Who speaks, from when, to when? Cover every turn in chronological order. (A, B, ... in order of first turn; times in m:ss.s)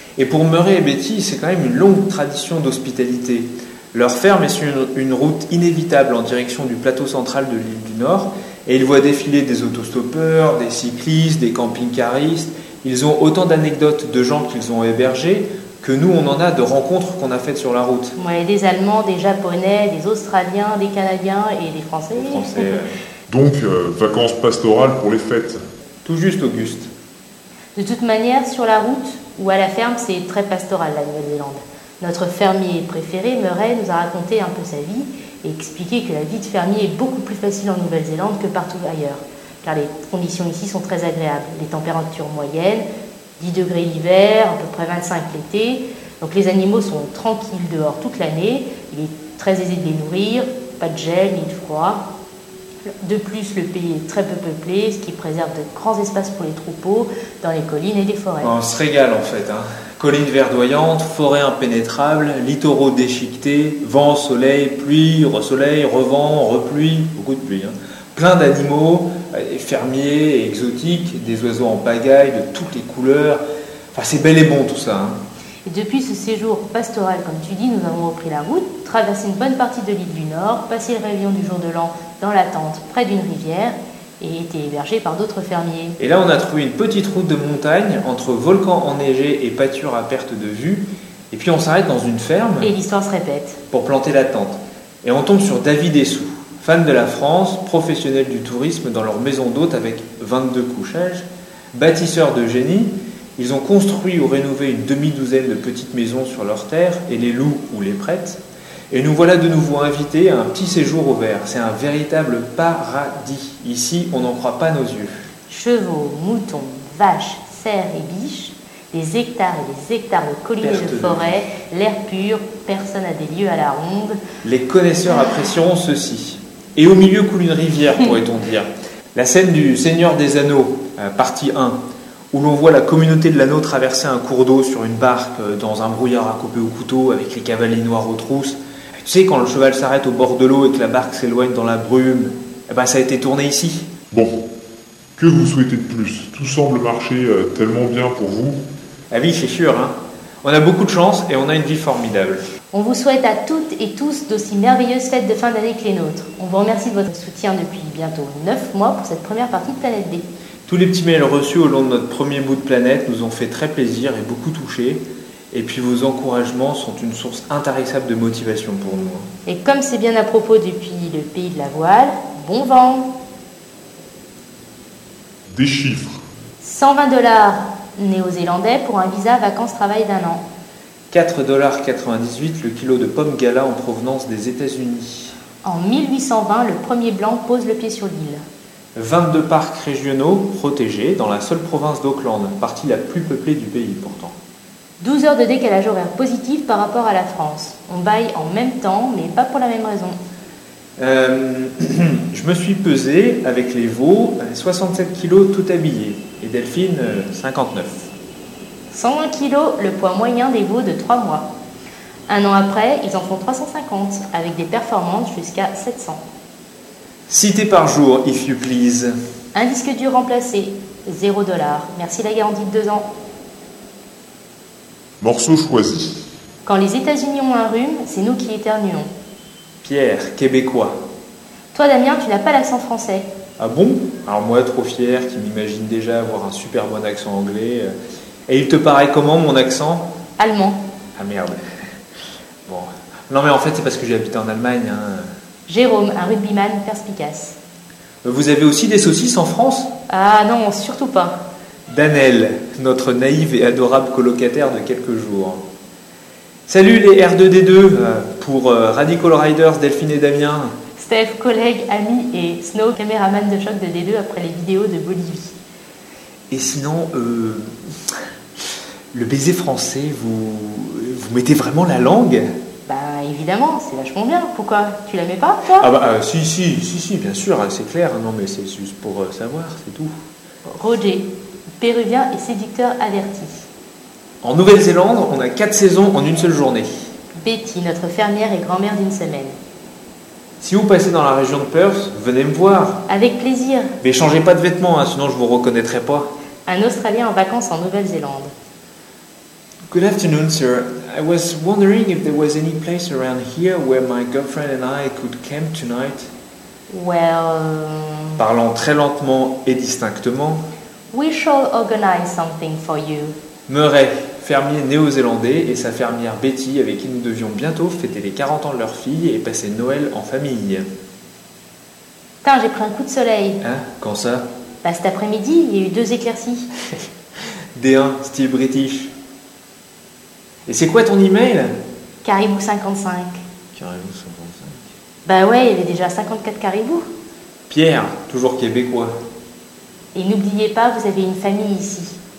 0:00.2-0:18.1 A
0:18.2-0:22.7 B
0:22.1-0:22.9 A
0:23.3-0:25.6 C
0:26.0-0:26.9 A
0:27.7-0:42.8 B
0:43.4-0:52.0 B
0:52.9-0:58.5 B
0:58.4-1:13.4 A
1:13.9-1:15.2 A
1:15.6-1:26.0 B
1:26.0-1:32.7 A
1:32.6-1:33.6 B
1:33.7-1:48.4 A
1:48.9-1:55.1 A
1:55.5-2:04.2 B
2:00.6-2:01.3 A
2:04.4-2:11.8 A
2:12.3-2:23.9 A
2:24.1-2:24.4 C
2:25.2-2:28.6 C
2:29.1-2:32.4 A
2:32.7-2:40.2 B
2:40.7-2:49.3 A
2:49.4-2:53.1 B
2:55.5-2:56.2 C
2:56.6-3:00.4 B
3:01.1-3:05.3 A
3:05.6-3:08.4 B
3:09.0-3:14.3 A
3:15.0-3:20.2 B
3:21.0-3:28.1 A
3:28.9-3:31.5 B
3:32.3-3:36.2 B
3:37.3-3:39.1 A
3:39.5-3:43.0 B
3:45.2-3:46.2 C
3:46.6-3:49.1 B
3:49.8-3:51.0 A
3:51.7-3:53.3 B
3:53.6-3:57.9 A
3:58.5-4:00.1 A
4:00.4-4:00.8 B
4:01.2-4:01.6 A
4:02.6-4:05.3 A
4:05.7-4:07.6 B
4:08.2-4:09.9 A
4:10.1-4:11.4 B
4:11.9-4:15.6 A
4:16.7-4:20.7 A
4:21.0-4:25.5 B
4:26.5-4:27.7 A
4:29.1-4:32.5 A
4:32.8-4:35.9 B
4:35.8-4:40.1 A
4:40.6-4:43.5 B
4:44.4-4:46.9 A
4:47.4-4:49.5 B
4:50.6-4:53.0 A
4:53.1-4:53.9 B
4:54.0-4:56.3 A
4:56.6-4:58.5 B
4:59.9-5:06.3 A
5:06.9-5:08.4 B
5:08.4-5:10.6 A
5:11.1-5:13.3 B
5:13.7-5:20.8 A
5:22.4-5:23.6 B
5:23.6-5:24.5 A
5:24.8-5:26.7 B
5:27.7-5:29.1 A
5:30.6-5:31.7 A
5:32.2-5:33.4 B
5:33.7-5:34.8 A
5:35.2-5:37.0 B
5:37.7-5:39.1 A
5:40.1-5:42.2 B